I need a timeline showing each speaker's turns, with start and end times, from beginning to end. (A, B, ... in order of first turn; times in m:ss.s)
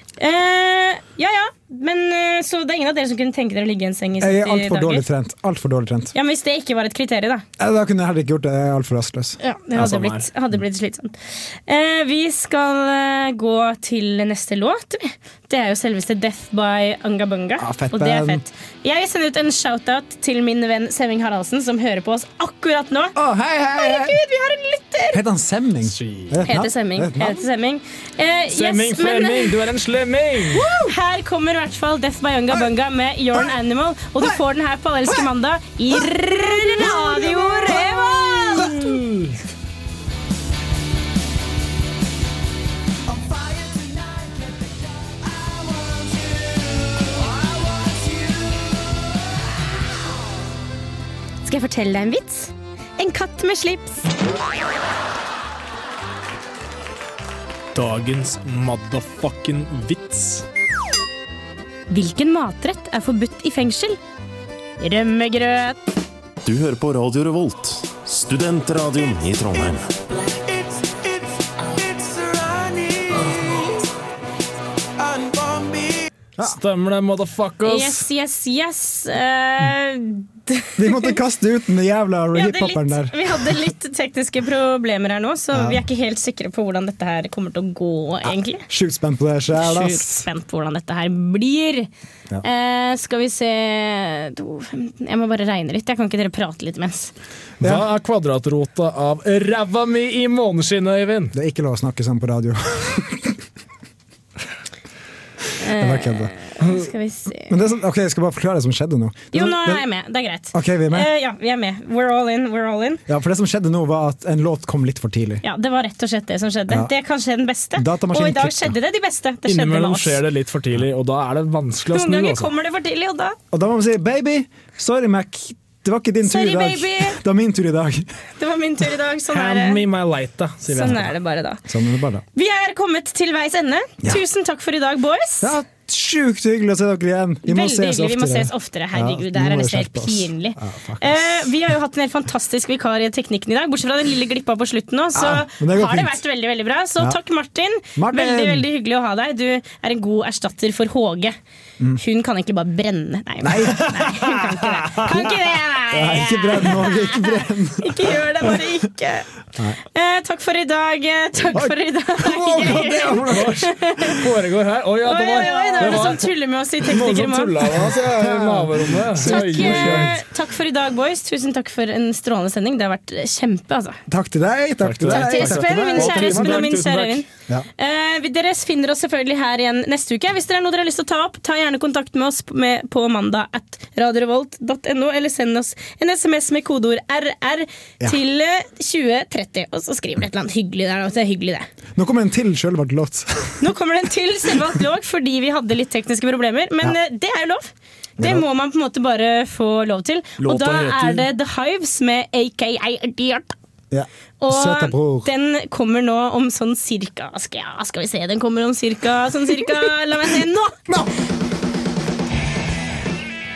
0:00.2-0:05.0 A
0:04.2-0:06.1 B
0:06.1-0:07.4 A
0:07.6-0:09.9 B
0:09.4-0:23.2 A
0:09.8-0:10.2 C
0:17.6-0:18.4 B
0:23.1-0:24.2 B
0:23.7-0:25.2 A
0:25.1-0:27.4 B
0:25.8-0:26.3 C
0:26.4-0:29.5 A
0:28.5-0:30.7 C
0:30.5-0:38.7 A
0:38.3-0:39.4 C
0:51.4-0:54.1 A
0:57.7-1:00.4 C
1:01.9-1:04.0 A
1:04.8-1:05.8 A
1:06.4-1:09.8 D
1:16.4-1:18.0 C
1:17.6-1:21.2 A
1:20.8-1:23.2 B
1:22.3-1:28.6 A
1:25.5-1:25.8 B
1:28.7-1:30.3 B
1:29.5-1:31.9 A
1:32.4-1:37.1 A
1:37.6-1:41.3 C
1:37.6-1:37.9 B
1:41.3-1:43.4 B
1:45.6-1:47.5 A
1:45.7-1:46.5 B
1:47.4-1:49.8 B
1:49.3-1:53.0 A
1:50.5-1:51.1 B
1:53.1-1:55.4 B
1:55.4-2:00.2 A
1:57.8-1:58.8 B
1:59.4-2:02.5 C
2:01.9-2:03.4 A
2:03.5-2:08.1 B
2:06.2-2:07.2 A
2:08.4-2:09.8 A
2:09.3-2:11.1 C
2:10.7-2:11.6 A
2:11.7-2:12.2 B
2:12.3-2:15.5 A
2:15.4-2:21.5 B
2:17.4-2:31.4 A
2:25.1-2:26.2 B
2:28.0-2:28.6 B
2:31.9-2:39.3 A
2:33.4-2:34.3 B
2:35.0-2:35.2 B
2:35.9-2:38.6 B
2:39.9-2:44.2 A
2:41.5-2:43.5 B
2:42.6-2:50.2 C
2:45.0-2:47.7 A
2:45.5-2:46.2 B
2:47.7-2:50.2 B
2:49.2-2:54.0 A
2:54.1-2:56.6 B
2:54.8-2:57.2 C
2:55.1-2:57.2 A
2:57.8-3:11.7 A
3:12.0-3:13.7 B
3:13.6-3:23.5 A
3:18.2-3:18.4 B
3:20.4-3:21.2 C
3:23.9-3:25.3 B
3:24.4-3:30.8 A